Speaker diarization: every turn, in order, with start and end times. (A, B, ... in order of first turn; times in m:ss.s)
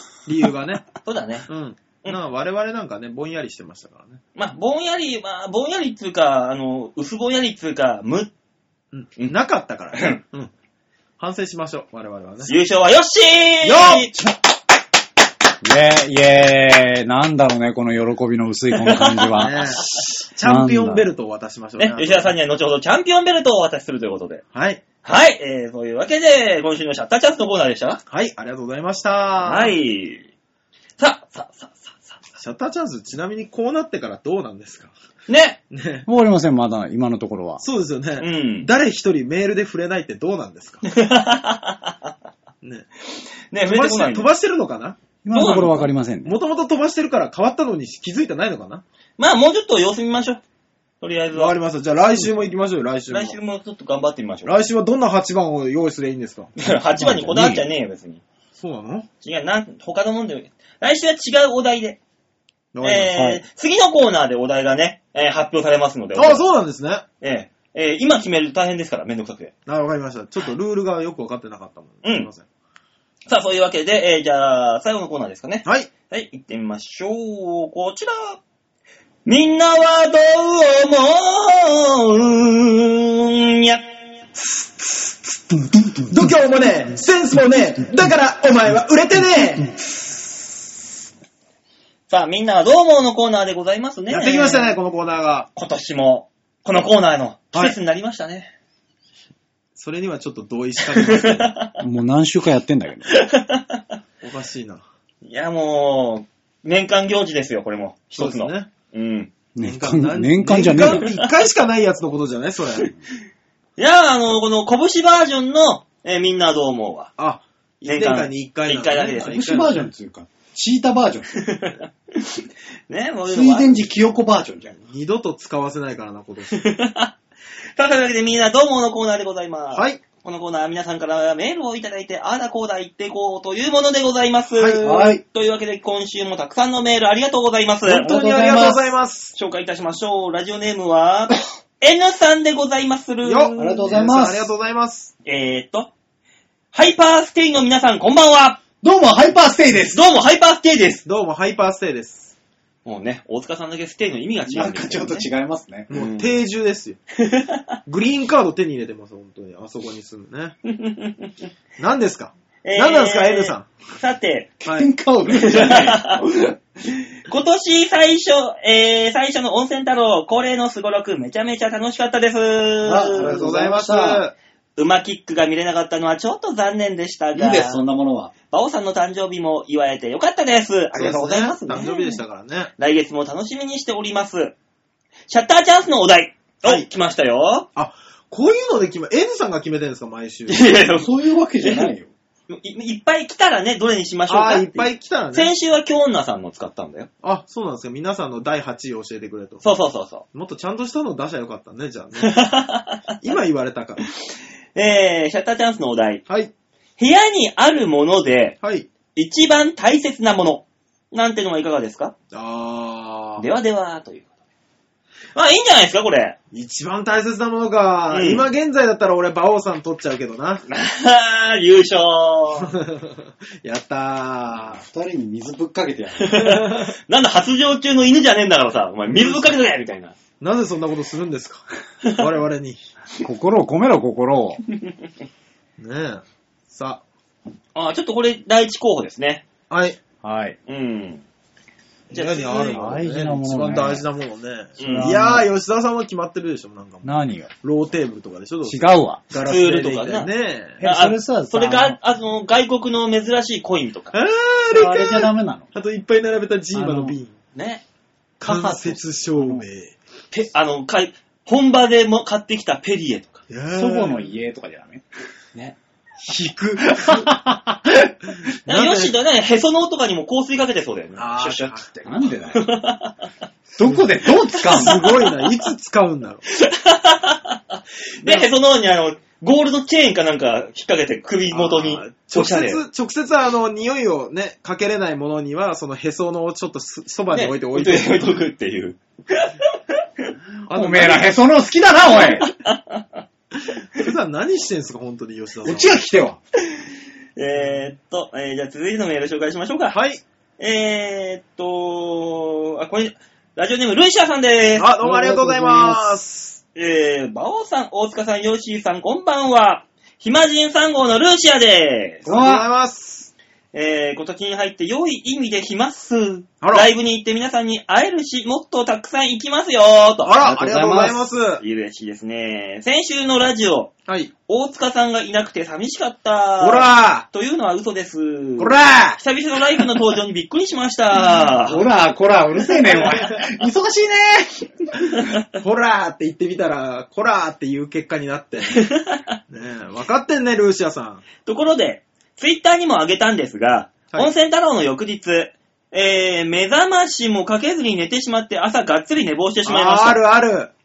0:00.3-0:00.9 A
0:01.0-0:01.5 B
0:01.5-0:04.2 A
0:04.4-0:08.3 B
0:08.9-0:10.5 A
0:09.9-0:10.2 B
0:11.2-0:12.5 A
0:12.4-0:14.1 B
0:13.6-0:14.2 A
0:15.6-0:19.8 C
0:18.8-0:20.0 B
0:19.3-0:22.3 A
0:20.4-0:21.1 C
0:21.8-0:24.4 B
0:24.5-0:24.8 A
0:25.0-0:28.0 B
0:28.1-0:29.8 A
0:29.4-0:30.3 B
0:31.0-0:32.2 B
0:32.4-0:34.9 A
0:35.3-0:35.6 B
0:35.7-0:36.1 A
0:36.1-0:37.6 C
0:37.6-0:40.8 A
0:38.2-0:38.7 B
0:40.8-0:42.1 B
0:42.6-0:42.9 A
0:43.5-0:44.3 B
0:43.6-0:45.0 A
0:45.2-0:46.4 C
0:45.3-0:45.9 B
0:46.2-0:48.8 A
0:49.2-0:50.4 B
0:51.0-0:51.6 B
0:51.3-0:53.4 A
0:53.1-0:54.7 B
0:54.4-0:56.5 A
0:56.6-0:58.2 B
0:57.0-0:57.6 C
0:58.6-0:59.1 A
0:59.2-1:02.0 B
1:02.7-1:03.2 A
1:02.8-1:06.4 B
1:03.1-1:03.4 C
1:06.2-1:07.0 A
1:07.2-1:09.5 B
1:09.7-1:12.4 A
1:12.0-1:12.3 B
1:13.3-1:18.4 B
1:15.6-1:15.9 A
1:19.2-1:23.8 B
1:25.5-1:26.2 C
1:26.1-1:29.7 A
1:32.1-1:34.8 B
1:34.1-1:35.5 A
1:35.6-1:38.5 B
1:39.8-1:41.6 A
1:40.9-1:41.8 B
1:41.8-1:43.1 C
1:43.1-1:43.8 B
1:44.2-1:44.8 A
1:45.2-1:49.3 B
1:48.2-1:48.7 A
1:49.6-1:51.1 C
1:49.6-1:52.9 A
1:53.8-1:57.1 B
1:57.2-1:59.9 A
1:57.8-1:59.6 B
1:59.2-2:01.4 C
2:01.3-2:03.8 B
2:03.3-2:04.7 C
2:04.8-2:06.6 A
2:06.5-2:07.1 B
2:07.8-2:18.2 B
2:09.7-2:10.0 A
2:14.6-2:15.0 A
2:14.8-2:15.2 C
2:17.9-2:19.4 A
2:18.0-2:18.9 C
2:19.3-2:23.6 B
2:23.2-2:25.1 A
2:23.6-2:24.5 C
2:25.2-2:25.9 B
2:26.7-2:28.6 B
2:28.8-2:30.0 C
2:29.9-2:31.0 B
2:31.0-2:32.3 A
2:32.8-2:35.3 B
2:34.5-2:35.9 C
2:35.9-2:37.0 A
2:35.9-2:36.4 B
2:37.2-2:37.7 B
2:37.9-2:40.6 A
2:40.7-2:41.3 B
2:41.8-2:43.7 A
2:42.6-2:44.6 B
2:44.6-2:44.9 A
2:44.6-2:46.6 C
2:45.3-2:46.2 B
2:47.3-2:53.4 B
2:52.8-2:54.2 C
2:53.2-2:54.3 A
2:54.8-2:57.8 B
2:57.4-2:58.3 C
2:58.5-3:02.2 B
3:01.0-3:02.7 A
3:01.1-3:02.0 C
3:02.8-3:04.6 B
3:05.3-3:07.7 B
3:07.8-3:10.8 A
3:10.5-3:11.9 B
3:11.0-3:12.1 C
3:12.5-3:17.1 B
3:14.3-3:15.5 A
3:17.2-3:19.6 A
3:19.6-3:20.2 B
3:20.3-3:22.4 A
3:22.2-3:23.0 B
3:23.2-3:24.0 A
3:24.8-3:26.2 B
3:27.0-3:28.6 B
3:28.6-3:28.9 A
3:29.2-3:32.1 B
3:32.3-3:33.5 A
3:33.4-3:34.3 B
3:35.4-3:36.4 B
3:36.5-3:40.6 A
3:38.1-3:38.5 B
3:40.7-3:42.8 B
3:42.7-3:44.8 A
3:44.7-3:46.5 C
3:46.2-3:50.1 B
3:46.3-3:46.9 A
3:49.1-3:49.5 A
3:50.4-3:52.8 A
3:53.2-3:54.6 C
3:55.8-3:57.0 A
3:57.8-3:59.4 B
3:59.7-4:00.0 A
4:00.2-4:00.6 C
4:00.7-4:01.2 B
4:02.1-4:10.8 A
4:02.1-4:02.8 B
4:02.6-4:04.0 C
4:04.8-4:05.2 B
4:04.8-4:05.5 C
4:07.0-4:07.5 C
4:08.7-4:09.2 C
4:09.4-4:10.3 B
4:10.8-4:12.0 C
4:10.8-4:14.2 B
4:14.1-4:17.4 A
4:14.7-4:15.6 C
4:16.7-4:17.2 C
4:17.6-4:17.8 B
4:18.4-4:19.6 C
4:18.4-4:20.0 A
4:20.3-4:23.4 B
4:23.5-4:24.3 A
4:23.7-4:25.0 C
4:26.3-4:27.4 A
4:26.8-4:28.1 C
4:28.5-4:29.1 A
4:28.7-4:33.2 B
4:31.2-4:32.0 A
4:32.0-4:32.6 C
4:33.8-4:35.2 C
4:33.8-4:36.4 A
4:34.6-4:35.2 B
4:36.5-4:42.8 B
4:41.5-4:48.3 A
4:47.3-4:50.3 B
4:50.7-4:51.4 A
4:50.7-4:52.5 C
4:52.1-4:53.2 B
4:53.9-4:55.9 A
4:55.6-4:56.4 C
4:56.7-5:00.0 B
4:59.9-5:00.2 A
5:00.6-5:04.9 B
5:04.8-5:06.6 A
5:05.0-5:06.2 C
5:06.8-5:12.3 B
5:12.2-5:13.3 A
5:12.3-5:12.6 C
5:13.7-5:20.3 B
5:16.6-5:16.9 A
5:20.2-5:21.6 A
5:20.4-5:21.2 C
5:21.6-5:23.9 B
5:24.1-5:24.3 A
5:24.5-5:31.8 B
5:26.6-5:27.3 A
5:28.6-5:29.2 A
5:31.7-5:34.9 C
5:32.7-5:33.3 B
5:32.9-5:33.4 A
5:35.5-5:38.8 A
5:38.7-5:39.4 B
5:39.5-5:41.2 A
5:41.4-5:50.2 B
5:49.7-5:50.7 A